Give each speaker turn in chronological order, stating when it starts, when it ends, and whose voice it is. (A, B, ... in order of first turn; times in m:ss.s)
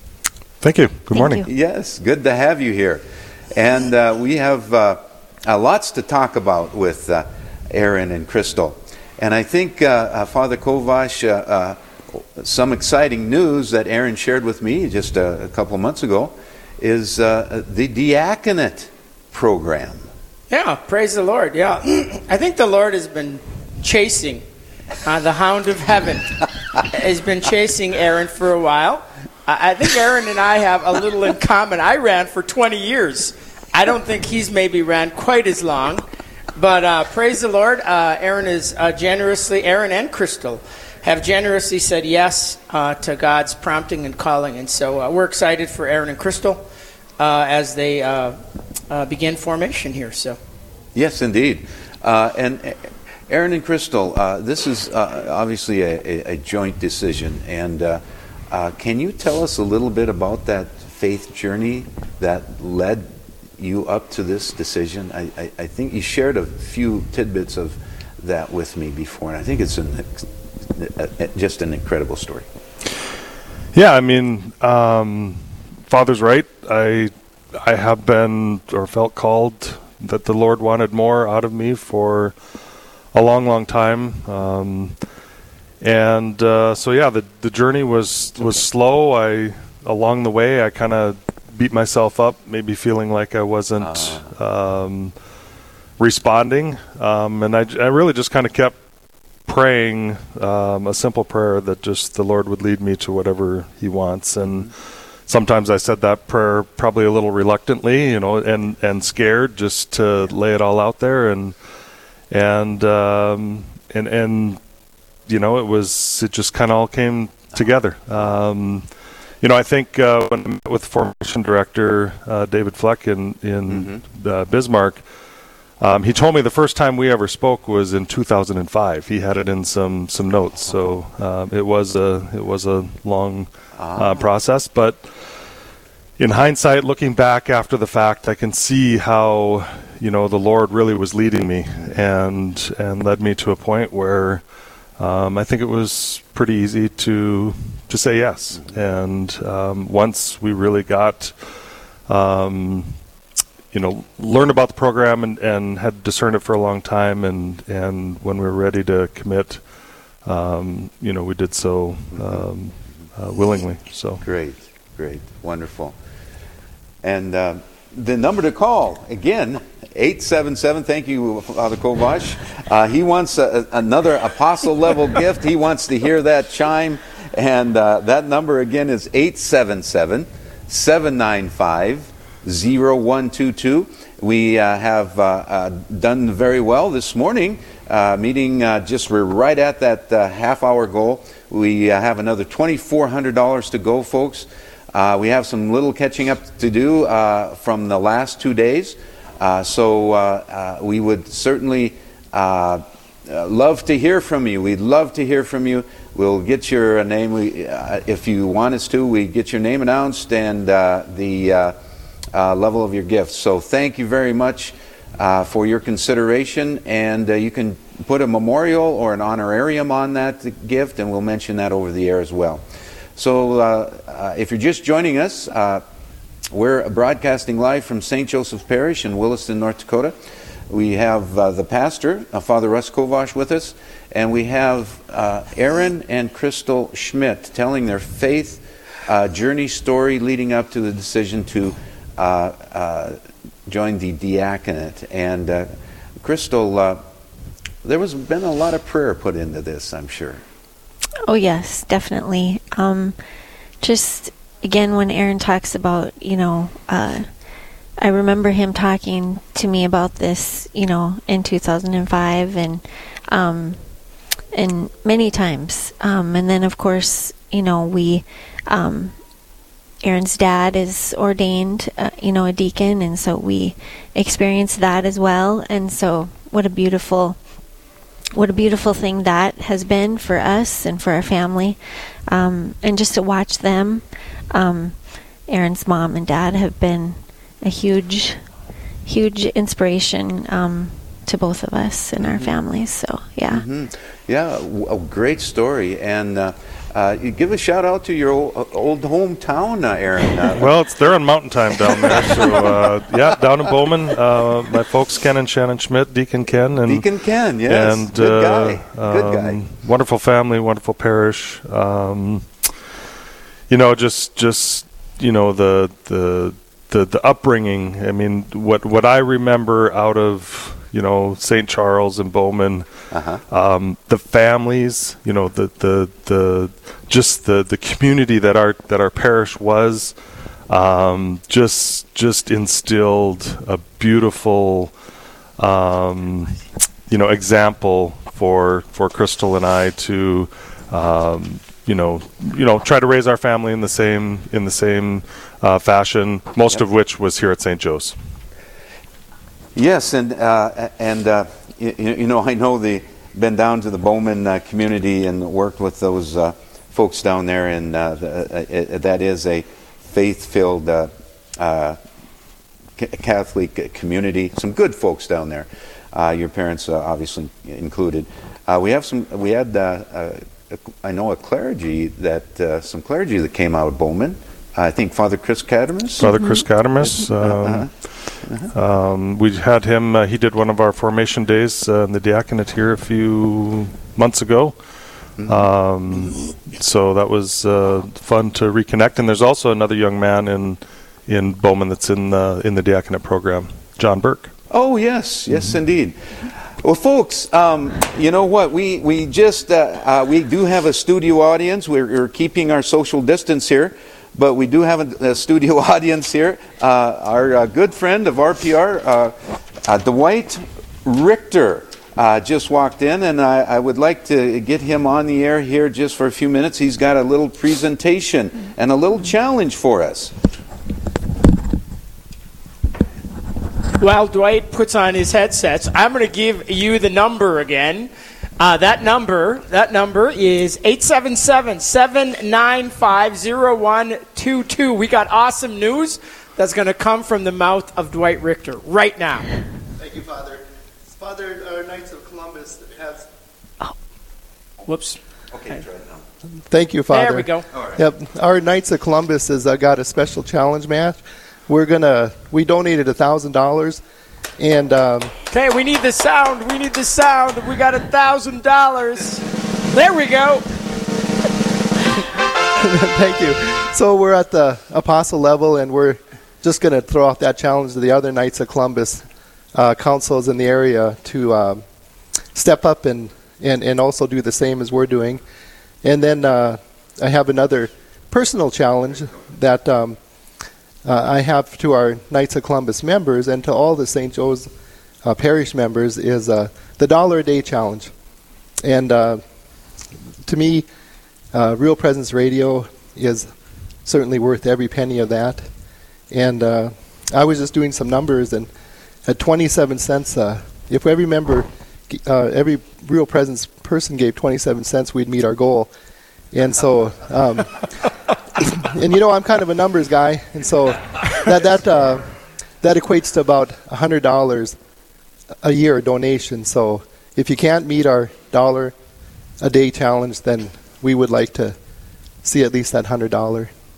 0:00.6-0:01.4 A
0:01.1-0:01.5 B
0:01.4-0:20.1 C
0:20.5-0:24.4 D
0:25.0-0:26.3 D
0:26.8-0:36.0 D
0:36.6-0:46.6 D
0:47.2-0:48.4 D
0:48.9-0:50.4 D
0:51.0-1:12.5 C
1:13.7-1:22.3 A
1:23.1-1:25.0 A
1:25.8-1:35.1 A
1:33.8-1:34.3 C
1:36.0-1:38.8 A
1:39.5-1:44.7 A
1:45.3-1:51.5 A
1:52.3-1:54.6 A
1:55.3-1:58.9 A
1:59.4-2:05.0 A
2:03.7-2:04.0 C
2:05.8-2:15.0 A
2:13.8-2:14.2 C
2:16.2-2:24.4 A
2:25.0-2:31.4 A
2:32.1-2:32.9 A
2:33.7-2:39.6 A
2:40.2-2:44.2 A
2:42.1-2:42.4 C
2:44.2-2:46.0 C
2:47.0-3:31.8 C
3:32.3-3:42.6 C
3:43.2-3:45.8 C
3:46.5-3:50.2 C
3:50.7-4:05.7 C
4:06.2-4:07.0 C
4:07.8-4:10.4 C
4:11.2-4:13.2 B
4:13.8-4:17.3 B
4:18.0-4:23.8 B
4:24.5-4:29.2 B
4:30.0-4:37.4 B
4:38.4-4:48.4 B
4:49.1-4:53.6 B
4:52.2-4:52.5 C
4:53.5-5:00.7 C
5:00.5-5:07.1 A
5:01.8-5:02.9 C
5:06.9-5:09.6 C
5:07.7-5:12.5 A
5:13.7-5:22.9 A
5:23.1-5:23.4 C
5:23.5-5:30.1 A
5:30.7-5:34.9 A
5:35.6-5:48.2 A
5:49.8-6:02.0 C
6:03.0-6:16.3 C
6:16.2-6:17.9 A
6:16.3-6:16.7 B
6:17.0-6:17.9 C
6:18.4-6:18.7 C
6:18.7-6:24.8 A
6:25.4-6:25.6 C
6:25.5-6:34.5 A
6:34.7-6:36.2 C
6:36.7-7:00.3 C
7:04.0-7:19.5 D
7:20.0-7:20.6 E
7:21.2-7:23.3 E
7:24.9-7:25.2 D
7:25.5-7:26.2 C
7:26.7-7:34.0 E
7:27.1-7:27.7 D
7:34.6-7:35.3 E
7:35.5-7:40.6 D
7:42.8-7:51.8 E
7:52.6-7:55.4 E
7:56.0-8:00.2 E
8:01.0-8:04.7 E
8:05.2-8:08.1 E
8:08.8-8:09.4 E
8:10.4-8:10.9 E
8:11.5-8:13.5 E
8:14.0-8:15.7 E
8:16.3-8:18.7 E
8:19.2-8:25.9 E
8:26.5-8:27.8 E
8:28.6-8:32.2 E
8:32.8-8:34.8 E
8:35.6-8:38.9 E
8:39.6-8:41.8 E
8:42.4-8:43.7 E